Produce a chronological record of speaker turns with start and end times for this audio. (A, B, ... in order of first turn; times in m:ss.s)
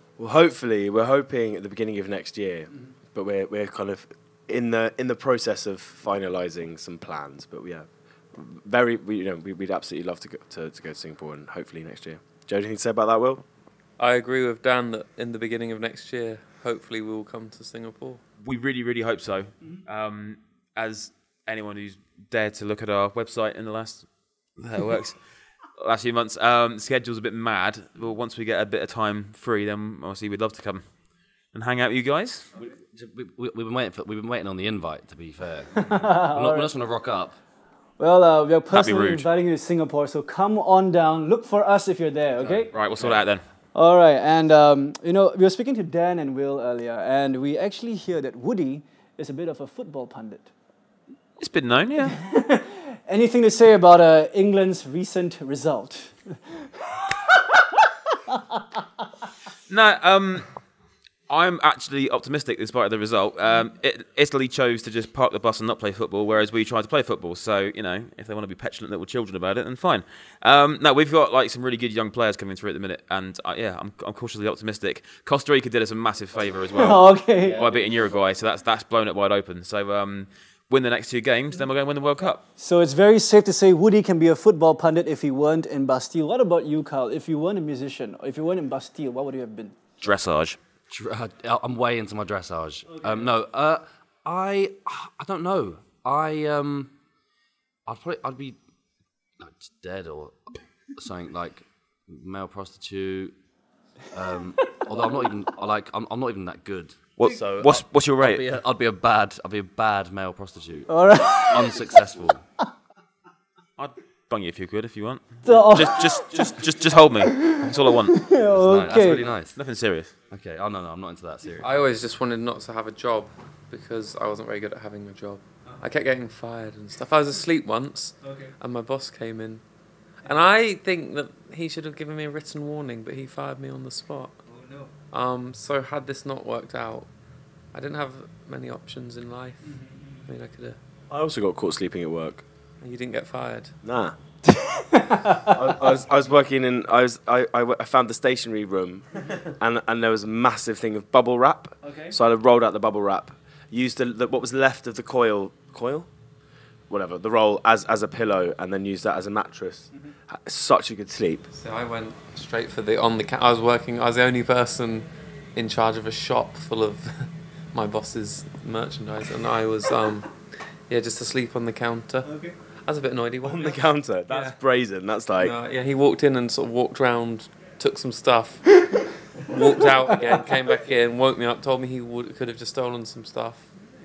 0:00.2-0:13.4 A
0:14.0-0:18.2 B
0:18.4-0:25.2 C
0:25.8-0:30.8 C
0:31.5-0:32.5 C
0:32.6-0:37.4 D
0:35.8-0:36.7 E
0:38.0-0:42.7 E
0:38.7-0:39.3 C
0:42.5-0:43.2 D
0:42.7-0:43.4 C
0:43.7-0:50.5 E
0:51.4-0:52.2 C
0:52.1-0:57.6 E
0:58.3-0:58.6 E
0:59.7-1:00.5 C
1:01.3-1:22.4 C
1:16.7-1:17.6 E
1:22.6-1:29.8 E
1:30.0-1:30.6 C
1:30.9-1:36.9 D
1:37.9-1:38.6 D
1:39.4-1:43.4 D
1:44.1-1:52.4 D
1:47.2-1:48.5 C
1:50.9-1:51.8 E
1:53.8-1:58.3 C
1:55.4-1:56.6 E
1:57.2-1:59.2 E
1:58.5-1:59.6 D
1:59.5-2:00.2 C
2:00.3-2:01.7 D
2:01.6-2:09.6 B
2:10.2-2:14.4 B
2:15.1-2:17.1 B
2:17.7-2:20.8 B
2:21.1-2:22.4 A
2:22.8-2:23.7 B
2:23.8-2:24.2 A
2:24.5-2:25.5 E
2:25.5-2:36.1 A
2:31.8-2:32.1 E
2:36.9-2:41.5 A
2:41.5-2:50.3 B
2:50.9-2:54.6 B
2:53.4-2:55.5 A
2:55.4-3:03.7 B